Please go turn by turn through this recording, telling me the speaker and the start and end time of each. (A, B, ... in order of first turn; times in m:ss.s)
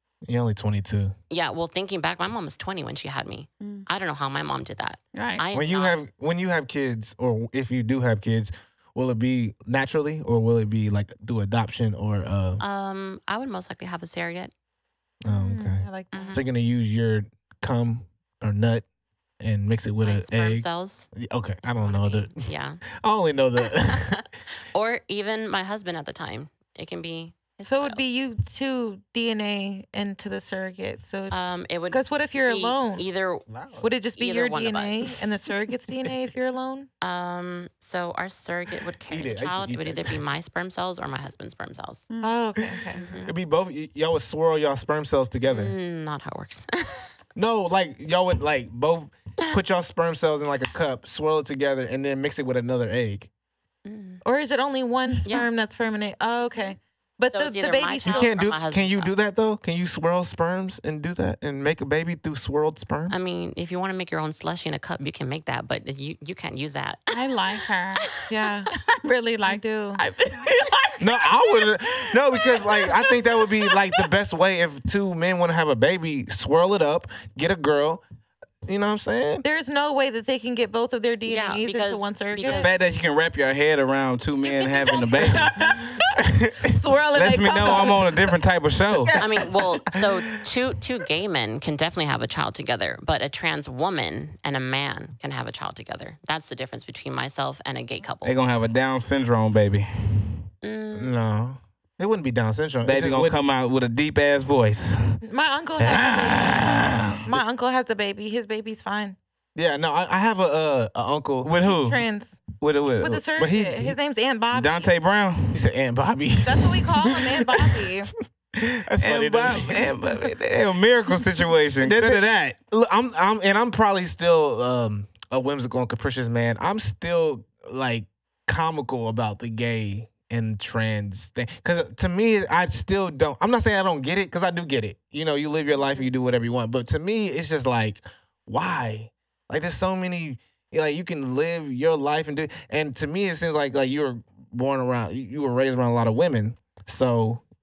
0:00.2-0:01.1 A
0:01.3-0:06.0 B
0:05.1-0:05.4 C
0:05.5-0:12.6 A
0:12.6-0:14.5 B
0:15.2-0:18.8 A
0:15.2-0:16.4 D
0:16.1-0:16.4 B
0:19.4-0:24.2 A
0:20.0-0:21.1 B
0:21.8-0:22.8 B
0:23.8-0:24.2 B
0:24.7-0:28.0 B
0:27.7-0:33.1 D
0:31.3-0:35.2 B
0:33.5-0:33.8 E
0:33.8-0:36.9 D
0:37.0-0:42.0 B
0:39.1-0:40.2 A
0:42.2-0:43.1 D
0:42.6-0:45.7 A
0:42.9-0:43.3 B
0:45.5-0:47.1 B
0:47.4-0:53.3 A
0:53.8-0:54.2 B
0:54.2-0:58.3 D
0:57.3-0:59.1 B
0:58.0-1:03.1 A
1:03.1-1:07.2 B
1:07.1-1:08.1 C
1:08.3-1:08.7 D
1:08.7-1:13.6 C
1:09.4-1:10.0 D
1:11.0-1:18.0 A
1:18.6-1:19.4 A
1:19.4-1:22.7 D
1:21.3-1:22.7 B
1:22.4-1:25.5 E
1:24.4-1:25.5 B
1:24.9-1:28.3 C
1:27.1-1:29.2 E
1:28.9-1:29.4 C
1:29.2-1:38.4 B
1:38.2-1:40.4 E
1:40.6-1:41.1 B
1:40.9-1:43.4 A
1:42.8-1:45.2 E
1:45.2-1:46.6 D
1:45.8-1:47.3 E
1:47.2-1:49.2 D
1:49.5-1:51.5 A
1:51.4-1:52.0 E
1:51.6-1:54.9 D
1:52.6-1:53.2 E
1:53.1-1:54.0 A
1:54.5-1:55.6 E
1:55.5-1:57.9 A
1:56.4-1:58.1 D
1:58.6-2:00.0 A
1:59.0-2:02.6 E
2:01.8-2:27.4 A
2:15.8-2:16.1 B